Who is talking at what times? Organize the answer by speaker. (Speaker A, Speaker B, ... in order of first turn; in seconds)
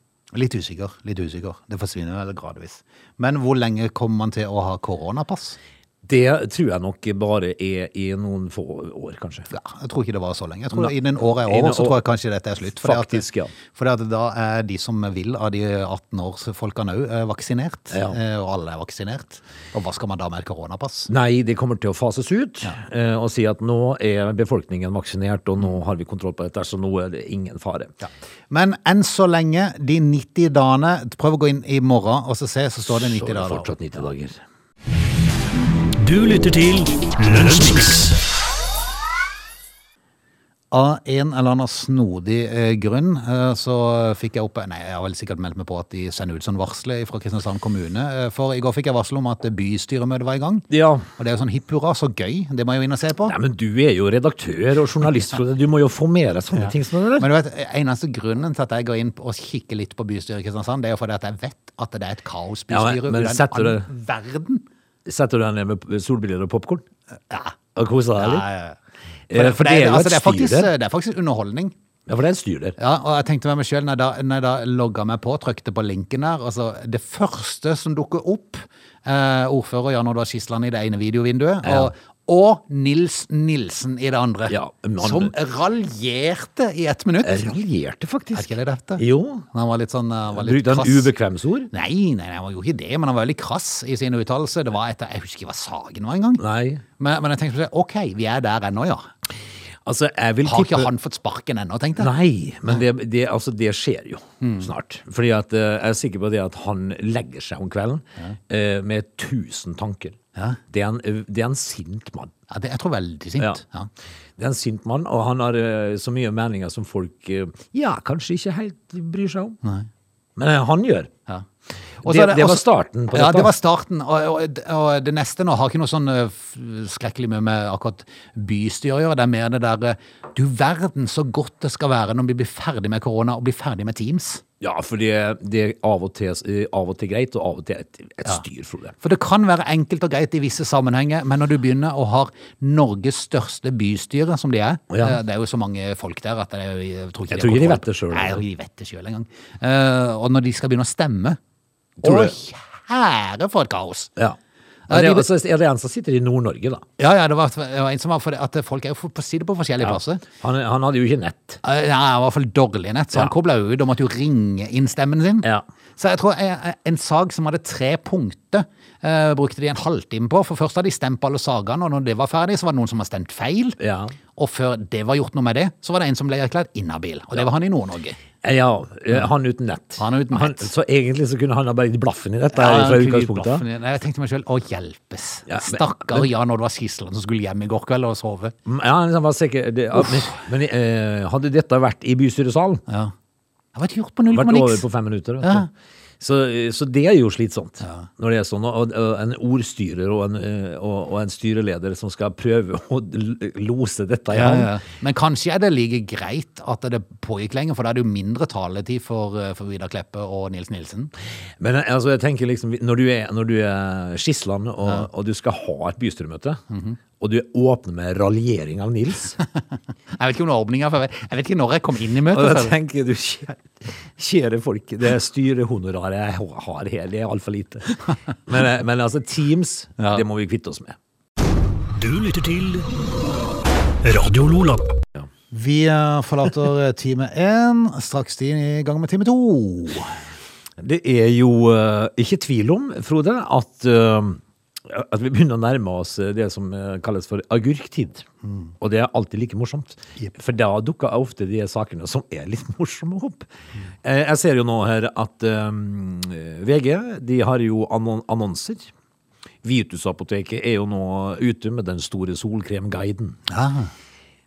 Speaker A: 0.3-5.6, 9.5-21.1, 28.0-33.7, 40.7-53.4, 56.5-64.6, 67.3-67.6, 68.2-68.8, 69.3-71.7, 72.8-87.6, 88.3-91.1, 91.7-96.4, 97.0-99.1, 100.4-102.1, 104.4-104.7, 112.5-113.9, 122.0-134.4, 139.0-151.4, 152.0-154.1, 154.9-155.3, 157.0-160.2, 161.6-173.8, 174.3-178.2, 180.0-180.7, 182.5-188.6, 192.9-193.1, 193.8-194.8, 195.4-195.7, 197.8-198.1, 204.3-211.1, 216.7-217.0, 220.2-222.7, 230.0-230.2, 235.5-240.2, 248.4-248.7, 263.5-263.9
Speaker B: 6.0-9.5, 11.4-12.0, 12.8-13.5, 17.9-18.2, 21.1-27.9, 32.9-34.4, 50.7-51.1, 53.3-57.3, 62.7-63.9, 65.1-66.8, 67.8-68.5, 69.3-70.7, 72.1-72.8, 81.6-81.9, 84.5-85.3, 87.2-89.5, 90.3-91.7, 96.4-96.8, 99.8-100.9, 102.0-110.2, 110.7-112.3, 114.4-119.6, 120.4-121.1, 122.0-123.5, 134.6-138.9, 144.9-145.2, 147.3-148.4, 152.0-152.3, 154.9-156.9, 159.8-161.6, 173.8-174.1, 178.4-183.6, 185.5-186.3, 188.7-192.8, 194.3-195.7, 196.2-204.7, 211.6-216.6, 217.2-219.4, 222.3-231.0, 240.8-248.2, 248.8-253.5, 254.0-258.9, 259.6-263.4
Speaker C: 36.0-38.2, 231.9-232.9, 234.0-234.9